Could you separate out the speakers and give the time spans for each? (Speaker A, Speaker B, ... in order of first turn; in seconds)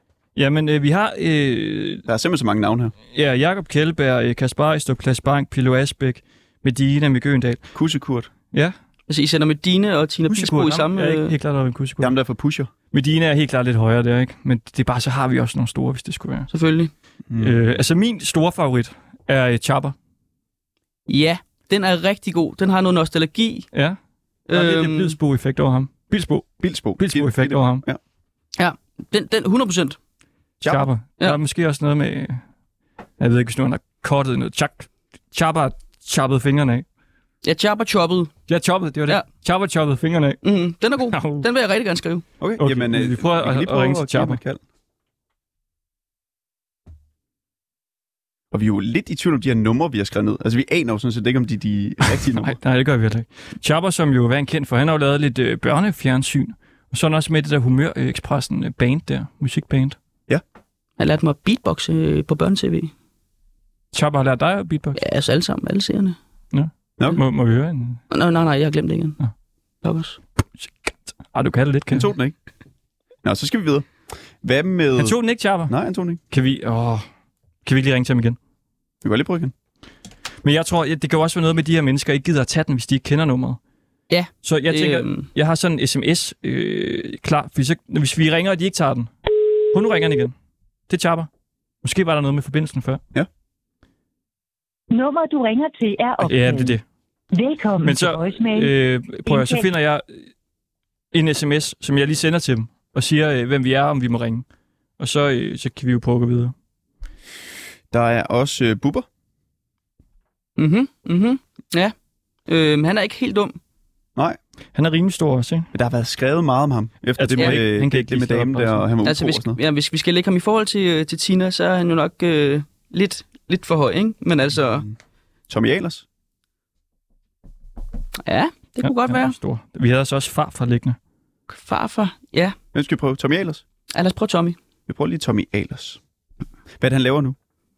Speaker A: 0.3-2.0, 3.1-7.6, 10.3-12.1, 12.9-16.5, 17.4-19.9, 23.7-24.0, 24.5-27.8, 30.6-32.4, 33.2-36.8, 38.5-40.4, 41.1-41.5, 42.6-44.4, 52.1-60.0, 63.9-65.0, 66.5-68.0, 70.6-72.1, 75.0-75.7, 76.3-77.0, 77.6-78.4, 80.4-83.6, 84.4-89.1, 89.7-90.3, 90.9-91.3, 91.8-93.0, 96.2-96.8, 97.8-100.0, 101.1-104.4, 105.0-106.5, 114.7-115.7, 117.2-118.9, 128.8-131.0
Speaker B: 2.1-2.9, 7.7-8.3, 12.0-12.7, 17.3-17.6, 26.6-28.0, 42.4-44.6, 48.5-52.6, 71.9-72.3, 73.2-73.9, 74.4-75.2, 75.7-76.2, 79.0-79.5, 107.9-109.1, 115.7-119.6, 124.6-125.0, 125.5-126.0, 132.7-133.6, 134.9-136.0, 136.8-137.3
Speaker C: 9.1-11.3, 16.5-16.9, 21.1-23.7, 24.5-25.1, 28.6-30.0, 37.4-38.3, 40.4-42.2, 61.0-62.9, 65.0-66.2, 68.1-69.2, 69.8-70.2, 84.1-85.2, 110.6-111.9, 112.5-113.6, 119.0-124.9, 128.2-129.3, 131.5-132.6, 133.9-134.6
Speaker D: 94.9-96.8, 97.3-98.7, 99.2-99.7